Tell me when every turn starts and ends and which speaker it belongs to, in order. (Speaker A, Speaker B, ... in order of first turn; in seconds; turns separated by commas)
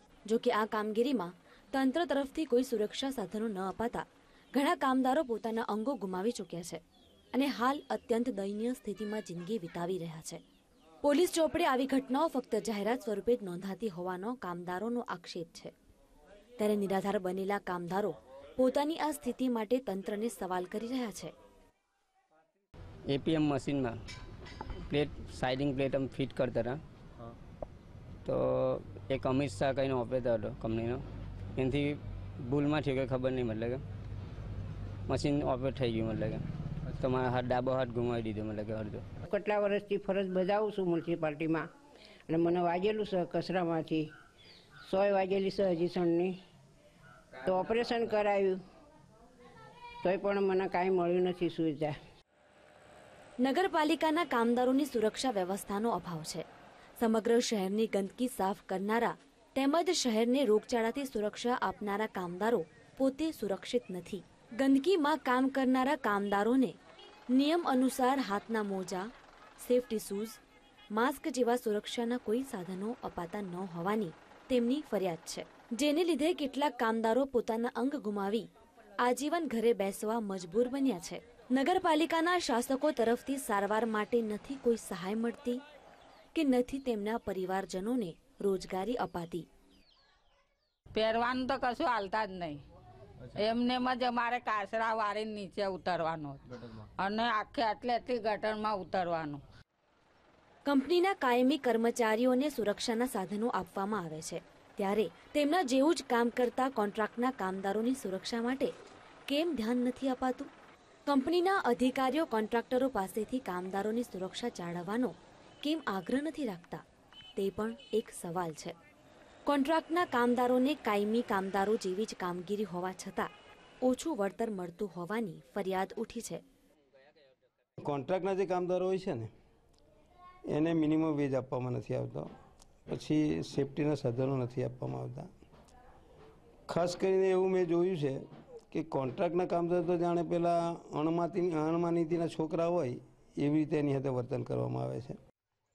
Speaker A: 0.3-6.8, Speaker A: 7.3-10.4, Speaker A: 11.0-15.7, Speaker A: 16.6-21.3, Speaker B: 23.1-24.0, Speaker B: 24.9-26.8, Speaker B: 28.2-31.0, Speaker B: 31.6-33.8, Speaker B: 35.1-39.0, Speaker C: 39.3-41.7, Speaker C: 42.3-44.1, Speaker C: 44.8-46.4, Speaker C: 47.4-48.6, Speaker C: 50.0-52.0, Speaker A: 53.4-56.5, Speaker A: 57.0-66.8, Speaker A: 67.3-70.4, Speaker A: 70.9-78.5, Speaker A: 79.0-85.6, Speaker A: 86.3-89.5, Speaker D: 90.9-92.6, Speaker D: 93.3-99.4, Speaker A: 100.7-108.7, Speaker A: 109.3-110.5, Speaker A: 111.1-116.8, Speaker A: 117.4-118.8, Speaker A: 119.5-123.3, Speaker A: 123.8-126.4, Speaker E: 127.8-129.3, Speaker E: 130.5-132.3, Speaker E: 132.9-135.3, Speaker E: 136.7-145.2